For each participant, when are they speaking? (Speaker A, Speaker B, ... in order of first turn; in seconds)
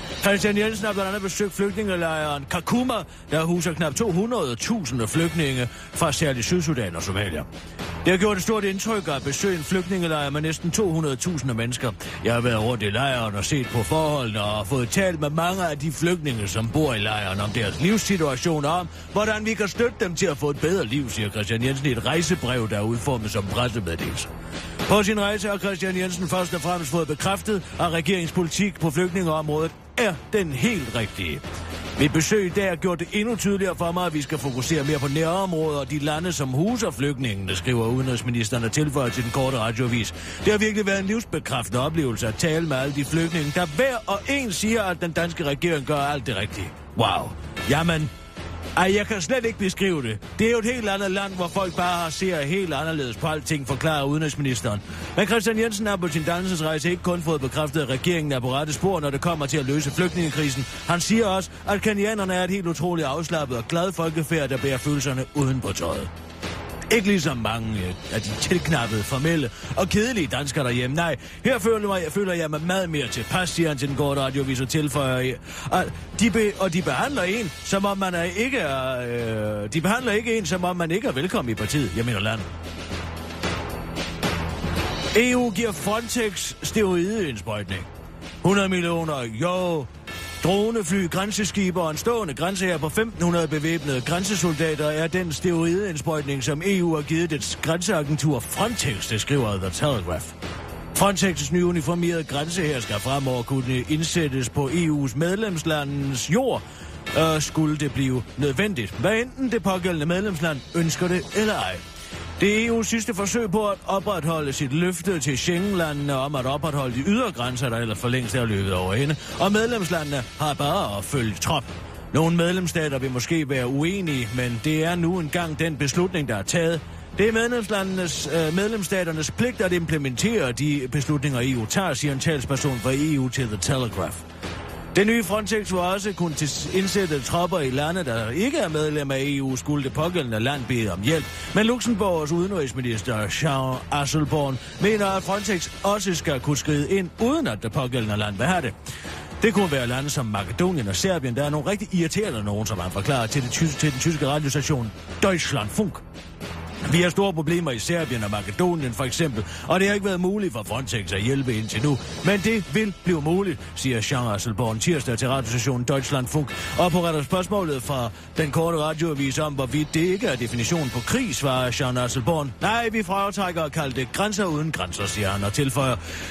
Speaker A: 0.2-7.5, 8.0-24.3, 24.9-31.4, 31.9-48.1, 48.8-66.1, 66.9-82.5, 85.1-87.9, 88.4-89.9, 90.4-100.3, 100.9-106.6, 107.1-111.8, 112.4-134.2, 134.9-148.7, 149.4-156.0, 156.8-176.0